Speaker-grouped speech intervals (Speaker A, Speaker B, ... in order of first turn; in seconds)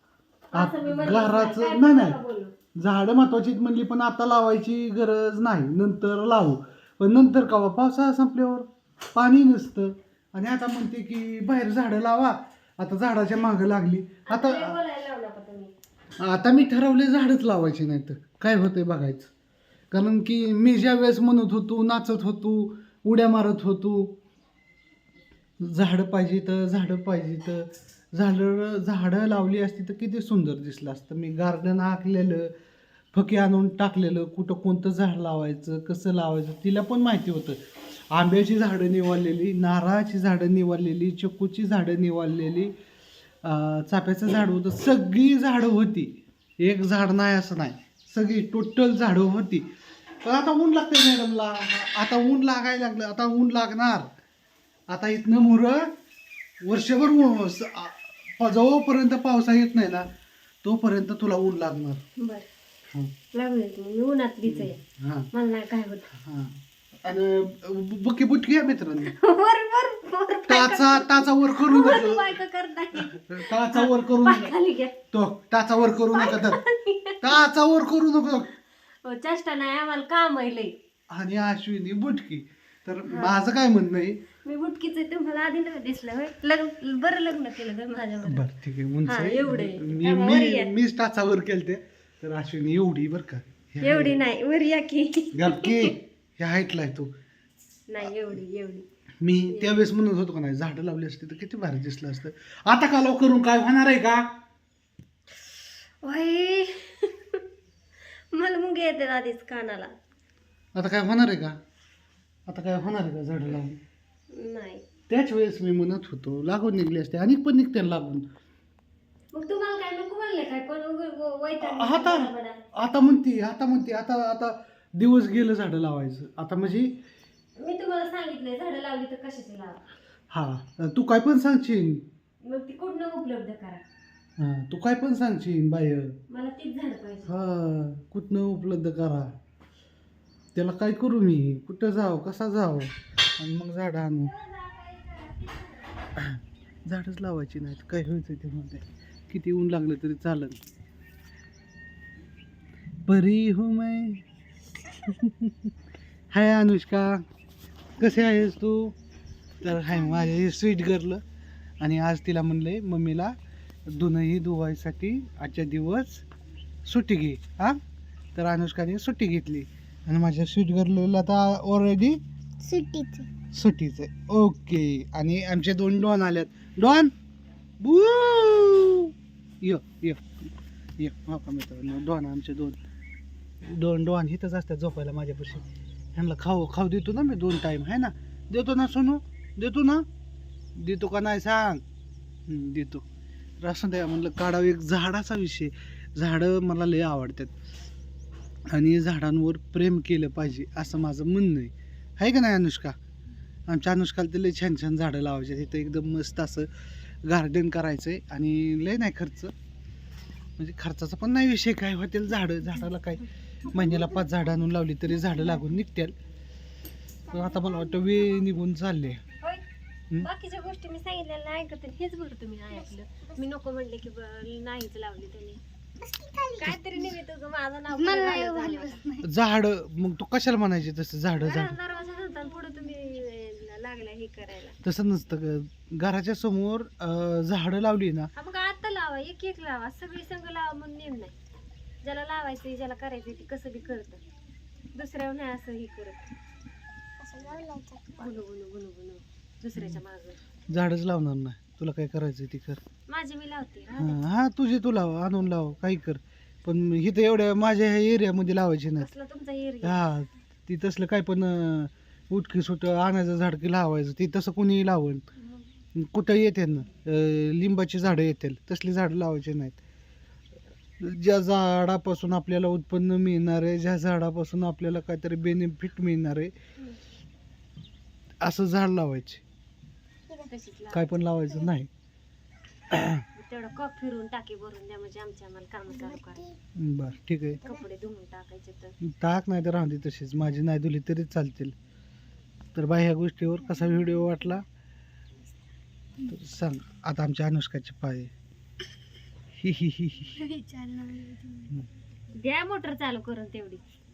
Speaker A: 0.5-2.5, 14.2-15.7, 62.2-62.5, 63.3-64.8, 65.3-66.1, 69.0-74.9, 76.1-77.3, 79.0-80.7, 83.1-83.4, 84.4-88.5, 89.1-90.7, 93.8-96.0, 97.9-98.8, 99.5-99.8, 105.4-107.4, 108.3-109.9, 114.3-114.8, 119.3-122.7, 127.6-129.8, 132.4-133.8, 136.3-137.3, 144.3-146.0, 220.2-225.6, 226.6-229.0, 231.4-234.8, 238.3-241.3, 242.0-244.2, 244.9-246.3, 248.2-250.4, 253.1-254.2, 259.0-260.1, 280.5-281.2, 283.4-286.4, 287.6-289.0, 302.3-303.8
Speaker B: 0.5-2.2, 2.8-14.8, 16.2-19.3, 19.9-24.1, 25.6-32.5, 33.1-37.6, 38.1-42.7, 43.4-49.7, 50.2-54.1, 54.9-55.9, 56.6-60.1, 60.6-62.0, 64.4-65.3, 66.1-69.1, 70.5-72.3, 73.0-74.5, 75.1-76.6, 77.2-78.5, 81.1-84.2, 88.2-94.2, 95.3-97.1, 99.2-104.3, 110.8-111.6, 112.5-113.8, 115.1-118.3, 121.6-127.0, 130.3-132.0, 134.4-136.2, 137.2-139.3, 140.5-144.3, 146.2-150.6, 153.1-154.2, 155.0-155.7, 156.3-157.2, 158.0-159.0, 159.6-161.2, 161.8-163.3, 163.9-166.2, 166.8-167.8, 168.3-172.2, 173.5-177.1, 177.8-182.8, 183.6-190.0, 190.8-191.8, 192.5-193.0, 193.6-197.5, 198.7-203.0, 203.7-206.7, 207.2-209.5, 210.6-216.2, 217.3-219.2, 229.2-231.8, 234.8-238.3, 250.7-252.8, 254.0-259.1, 259.8-265.2, 265.9-269.8, 271.0-276.5, 278.4-279.4, 280.9-281.9, 282.9-283.2, 286.8-287.6, 289.0-291.8, 292.8-294.6, 296.3-298.3, 299.5-300.4
Speaker C: 172.6-173.3, 217.3-218.2, 226.0-226.8, 228.0-229.3, 247.2-248.3, 285.9-286.6, 300.3-301.7